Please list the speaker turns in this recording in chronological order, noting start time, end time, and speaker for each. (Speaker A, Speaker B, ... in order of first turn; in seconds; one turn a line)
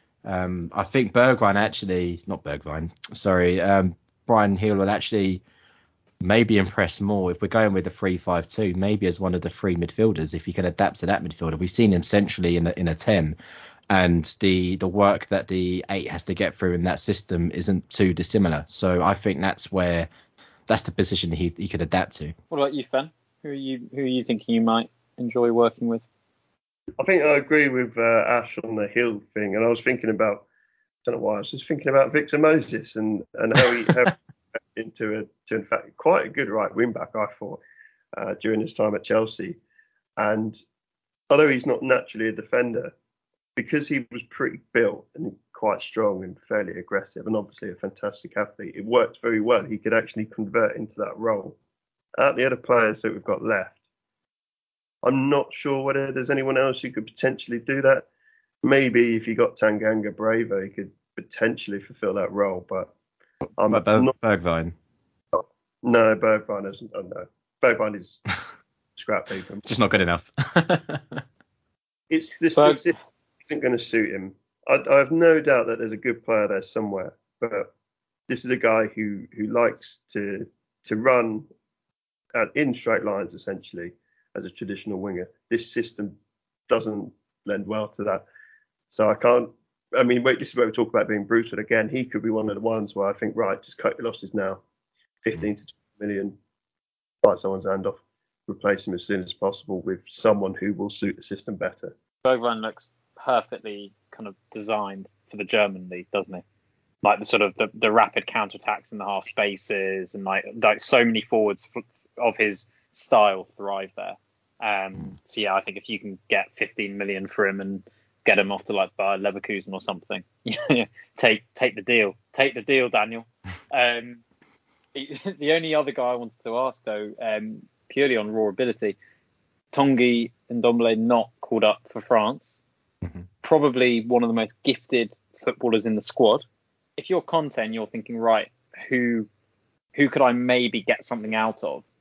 Speaker A: 0.2-5.4
Speaker A: 6.2-13.3
Speaker A: 13.9-20.1
Speaker A: 20.7-22.3
Speaker B: 22.5-26.0
Speaker C: 27.0-30.4
Speaker C: 31.0-37.6
Speaker C: 38.2-39.6
Speaker C: 40.2-40.6
Speaker C: 41.3-42.9
Speaker C: 43.5-51.6
Speaker C: 52.2-53.8
Speaker C: 55.0-58.1
Speaker C: 58.6-62.9
Speaker C: 63.6-64.1
Speaker A: 63.6-64.7
Speaker C: 65.3-68.2
Speaker C: 69.0-69.6
Speaker A: 69.6-71.2
Speaker C: 72.1-77.7
Speaker C: 78.3-81.5
Speaker C: 82.3-86.1
Speaker C: 86.7-88.2
Speaker C: 88.9-94.6
Speaker C: 95.2-96.3
Speaker C: 97.2-101.9
Speaker B: 102.2-106.4
Speaker B: 107.0-124.2
Speaker B: 124.9-129.0
Speaker B: 129.7-132.6
Speaker B: 133.4-136.4
Speaker B: 137.0-139.3
Speaker B: 139.9-141.8